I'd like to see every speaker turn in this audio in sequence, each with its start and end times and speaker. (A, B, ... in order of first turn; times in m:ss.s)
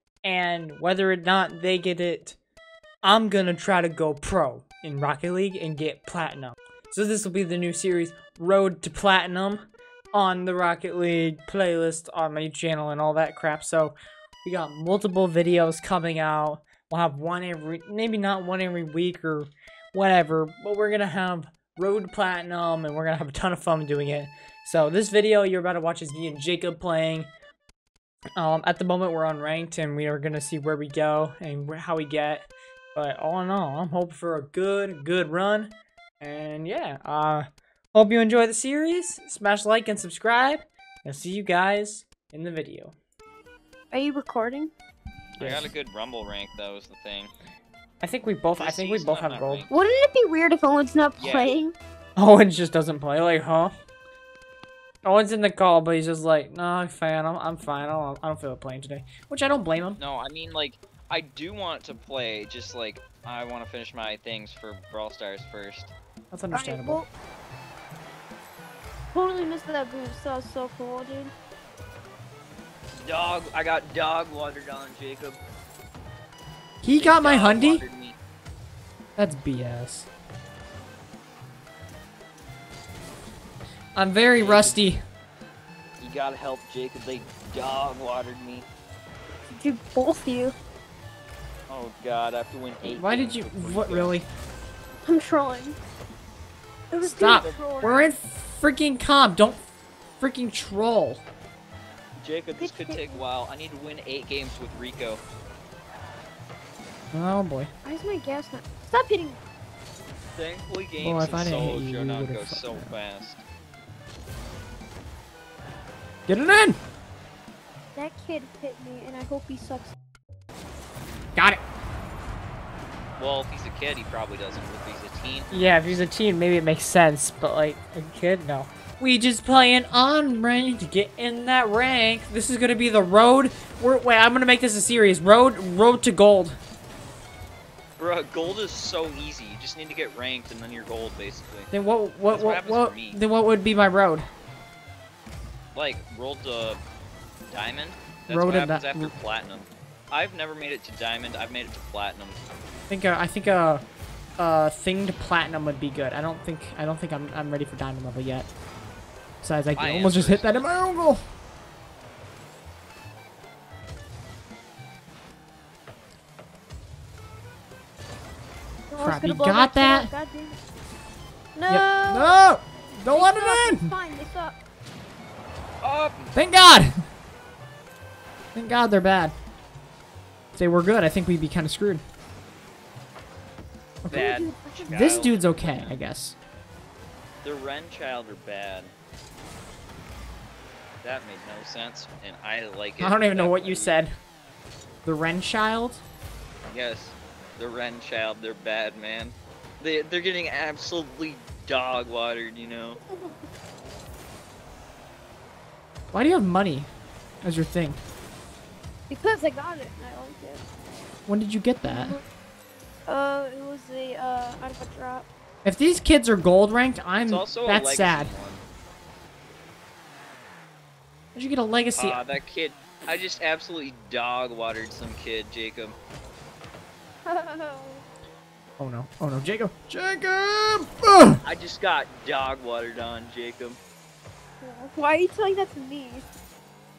0:00.2-0:02.4 A
0:03.0-0:27.3 A
0:28.4-0:43.0 A
0:43.9-0:44.7 B
0:45.4-0:47.3 C
0:45.4-0:45.7 A
0:48.0-0:49.7 A
0:48.6-0:49.7 C
0:49.7-0:51.7 B
0:51.2-0:51.6 C
0:52.2-0:53.7 A
0:55.0-1:00.0 A
1:00.0-1:05.9 C
1:06.3-1:07.0 A
1:06.5-1:07.1 B
1:09.1-1:11.3 B
1:13.0-1:15.4 C
1:16.8-1:17.8 A
1:16.9-1:18.2 C
1:19.2-1:20.1 A
1:24.0-1:25.0 A
1:24.4-1:24.9 C
1:26.0-1:28.7 C
1:29.6-1:30.6 B
1:31.7-1:34.2 C
1:32.9-1:34.3 A
1:35.0-1:35.8 B
1:36.9-1:38.0 B
1:37.0-1:39.6 A
1:37.2-1:38.1 C
1:40.2-1:41.2 A
1:42.2-1:45.2 C
1:42.6-1:43.2 B
1:47.1-1:47.7 A
1:47.8-1:49.4 B
1:50.4-1:53.4 C
1:51.0-1:52.9 A
1:56.3-1:56.8 A
1:58.0-1:59.9 B
2:01.4-2:01.6 A
2:03.2-2:06.0 C
2:05.5-2:16.6 A
2:18.0-2:21.7 C
2:21.7-2:24.3 A
2:22.3-2:23.2 C
2:25.7-2:26.8 C
2:27.5-2:32.4 C
2:28.3-2:29.1 A
2:32.9-2:33.8 A
2:34.4-2:38.5 A
2:39.4-2:41.2 A
2:39.7-2:40.7 C
2:48.9-2:50.6 B
2:49.0-2:50.1 A
2:51.6-2:52.4 B
2:51.7-2:53.9 A
2:53.1-2:54.6 B
2:55.8-2:56.4 C
2:56.4-2:57.0 A
2:58.6-2:59.4 A
3:00.6-3:02.0 A
3:04.1-3:06.0 C
3:04.1-3:05.1 B
3:04.9-3:06.4 A
3:07.4-3:08.9 C
3:11.0-3:14.0 C
3:13.0-3:14.1 A
3:15.0-3:16.0 A
3:16.7-3:23.0 C
3:26.1-3:26.9 A
3:27.4-3:28.0 A
3:29.1-3:30.6 B
3:31.3-3:32.2 A
3:31.8-3:32.2 B
3:33.1-3:35.3 B
3:35.6-3:38.3 A
3:37.2-3:38.6 C
3:41.4-3:42.2 A
3:42.0-3:46.0 C
3:47.3-3:48.0 B
3:48.8-3:51.4 A
3:51.4-3:53.8 C
3:54.6-3:56.3 B